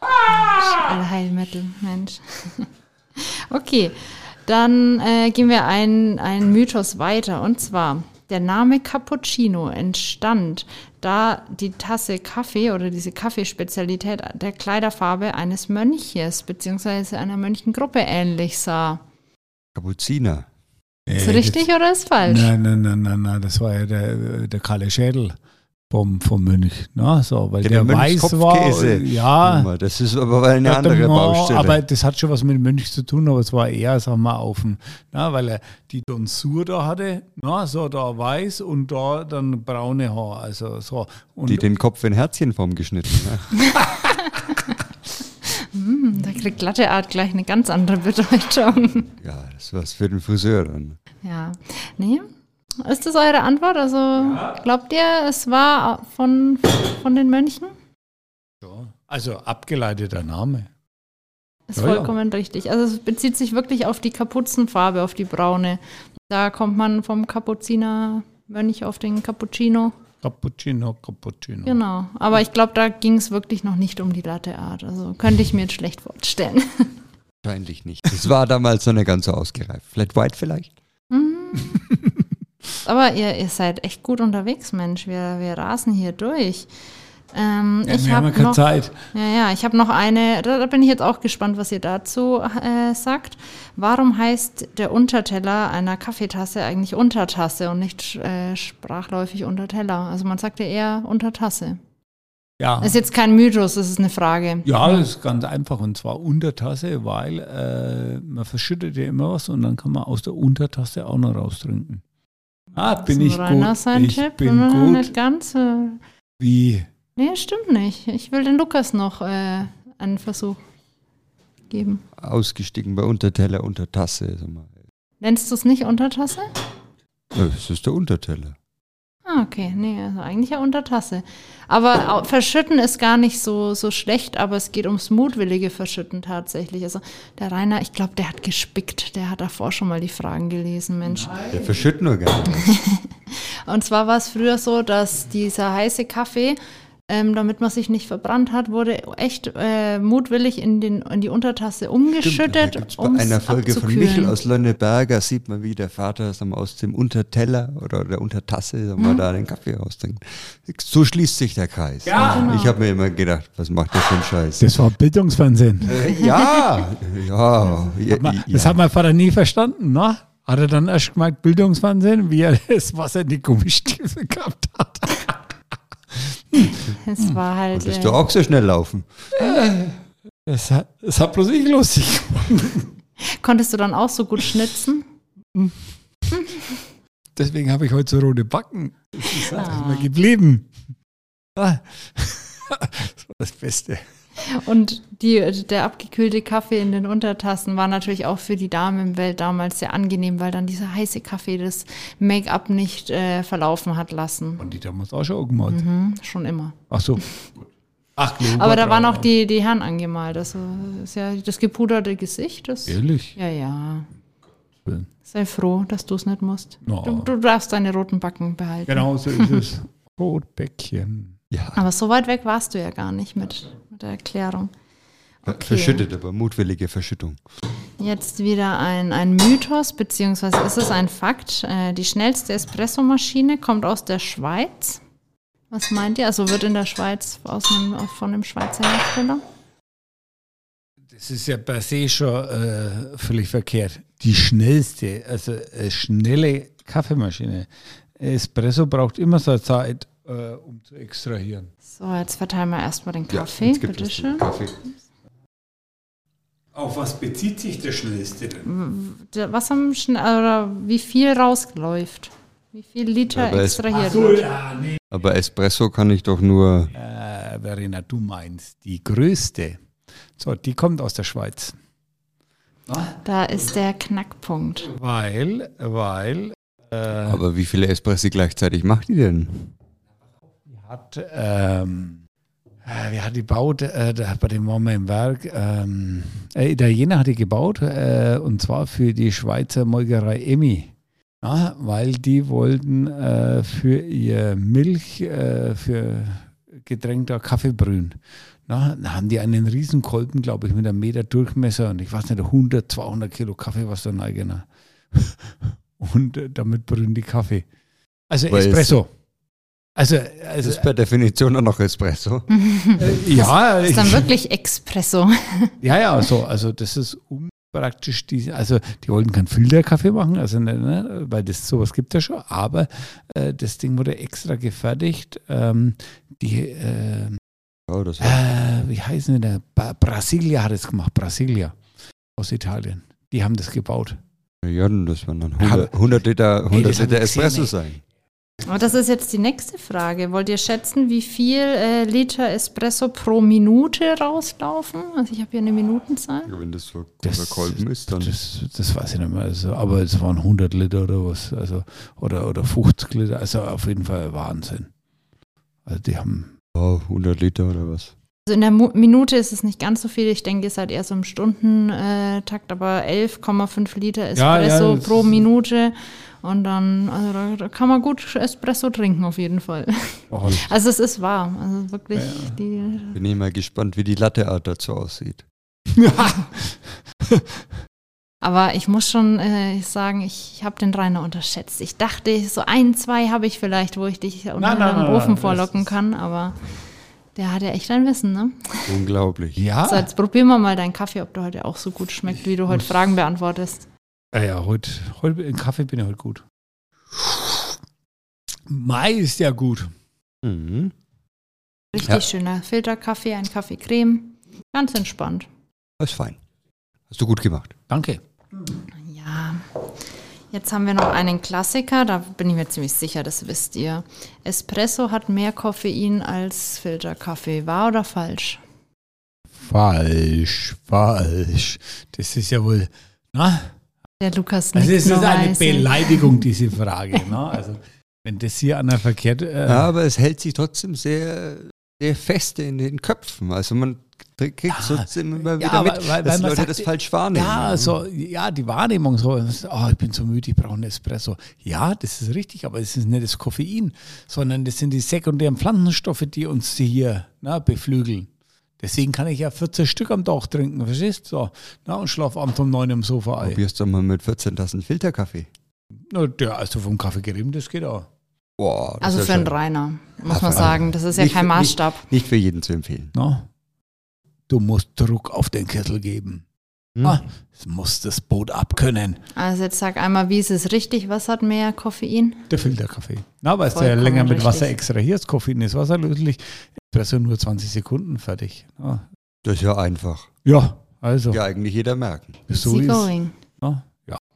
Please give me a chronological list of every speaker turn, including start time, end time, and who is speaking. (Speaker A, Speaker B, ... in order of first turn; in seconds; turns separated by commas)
Speaker A: 0.2-0.9, Speaker B: 0.4-19.0, Speaker C: 19.8-20.5, Speaker A: 21.1-21.7, Speaker B: 21.2-22.5, Speaker A: 22.2-25.4, Speaker A: 25.9-29.7, Speaker C: 27.6-31.8, Speaker A: 30.6-41.7, Speaker C: 41.5-43.6, Speaker B: 43.6-44.6, Speaker A: 43.8-44.1, Speaker B: 45.4-49.1, Speaker C: 49.2-51.0, Speaker B: 51.2-52.3, Speaker B: 52.8-57.7, Speaker A: 54.2-54.6, Speaker A: 58.6-60.7, Speaker B: 61.7-70.0, Speaker A: 61.8-62.1, Speaker A: 70.2-71.8, Speaker B: 71.7-76.9, Speaker C: 77.4-80.7, Speaker B: 81.1-81.8, Speaker A: 81.8-82.2, Speaker B: 82.8-86.7, Speaker B: 87.3-88.6, Speaker A: 87.9-89.0, Speaker B: 89.1-101.8, Speaker A: 102.6-103.0, Speaker B: 102.8-105.0, Speaker A: 104.7-112.0, Speaker A: 112.8-115.1, Speaker B: 113.0-116.0, Speaker A: 116.4-116.9, Speaker B: 117.2-120.6, Speaker B: 121.7-122.0, Speaker C: 122.2-124.7, Speaker B: 125.2-126.5, Speaker C: 127.3-128.6, Speaker B: 129.3-141.4, Speaker A: 141.1-141.6, Speaker C: 141.5-142.8, Speaker B: 142.6-146.6, Speaker B: 147.1-154.4, Speaker C: 152.2-164.7, Speaker B: 159.0-159.2, Speaker A: 162.1-162.5, Speaker B: 162.1-162.8, Speaker A: 164.6-166.0, Speaker C: 165.8-168.8, Speaker B: 166.2-166.7, Speaker A: 168.1-175.4, Speaker A: 176.1-177.3, Speaker B: 176.9-178.2, Speaker C: 177.7-179.5, Speaker A: 179.3-182.9, Speaker B: 183.2-185.1, Speaker B: 186.3-186.8, Speaker A: 187.4-190.7, Speaker B: 189.4-190.1, Speaker A: 191.6-194.0, Speaker B: 194.4-204.6, Speaker A: 204.6-205.8, Speaker B: 205.7-206.8, Speaker A: 206.9-207.3, Speaker A: 208.2-209.3, Speaker B: 208.4-214.1, Speaker A: 212.9-213.3, Speaker B: 215.3-219.7, Speaker A: 216.8-217.3, Speaker A: 218.9-221.4, Speaker C: 221.5-221.8, Speaker B: 221.8-224.7, Speaker B: 225.4-226.0, Speaker C: 225.5-227.4, Speaker B: 228.0-235.0, Speaker B: 235.7-239.4, Speaker A: 241.1-251.7, Speaker B: 251.9-254.5, Speaker C: 253.3-254.8, Speaker A: 256.8-258.7, Speaker B: 258.6-264.5, Speaker C: 263.3-263.9, Speaker A: 263.9-265.0, Speaker C: 265.1-266.9, Speaker A: 266.9-269.8, Speaker A: 270.4-271.8, Speaker A: 272.9-273.1, Speaker B: 273.2-274.9, Speaker A: 274.9-277.4, Speaker C: 277.2-279.7, Speaker A: 280.7-282.2, Speaker A: 282.9-307.7, Speaker A: 308.3-309.1, Speaker C: 308.5-309.0, Speaker A: 310.0-310.9, Speaker C: 310.6-312.5, Speaker B: 312.5-315.8, Speaker A: 313.0-314.3, Speaker A: 315.8-327.4, Speaker C: 327.9-328.4, Speaker A: 328.2-331.8, Speaker A: 332.4-334.2, Speaker C: 334.6-338.0, Speaker A: 335.6-336.1, Speaker A: 336.7-337.7, Speaker B: 338.6-346.5, Speaker C: 346.5-348.4, Speaker A: 347.2-354.9, Speaker A: 355.9-356.5, Speaker C: 356.8-358.1, Speaker B: 358.5-373.2, Speaker A: 364.4-365.4, Speaker A: 370.3-370.7, Speaker A: 372.1-372.6, Speaker C: 373.1-375.4, Speaker A: 375.9-377.6, Speaker B: 378.4-386.6, Speaker A: 384.6-385.9, Speaker B: 387.4-388.9, Speaker C: 388.9-389.6, Speaker A: 389.6-390.1, Speaker B: 389.9-393.9, Speaker A: 394.3-396.4, Speaker A: 397.1-397.8, Speaker A: 398.7-399.9, Speaker C: 400.4-400.9, Speaker B: 401.9-405.5, Speaker C: 406.0-406.4, Speaker C: 407.1-407.8, Speaker A: 407.9-408.2, Speaker B: 409.0-409.8, Speaker B: 410.5-418.6, Speaker A: 419.6-423.7, Speaker B: 424.2-426.4, Speaker A: 424.8-429.9, Speaker C: 429.7-437.9, Speaker A: 434.7-453.6, Speaker C: 453.4-455.5, Speaker A: 456.1-458.1, Speaker C: 458.6-459.6, Speaker B: 459.0-462.1, Speaker C: 460.3-463.1, Speaker A: 463.1-463.5, Speaker A: 464.5-466.4, Speaker C: 466.9-467.2, Speaker A: 467.0-469.2, Speaker B: 469.4-472.5, Speaker A: 472.5-479.1, Speaker B: 473.7-474.8, Speaker C: 479.4-480.3, Speaker A: 480.4-481.4, Speaker C: 481.3-482.4, Speaker A: 482.5-484.2, Speaker B: 482.5-483.3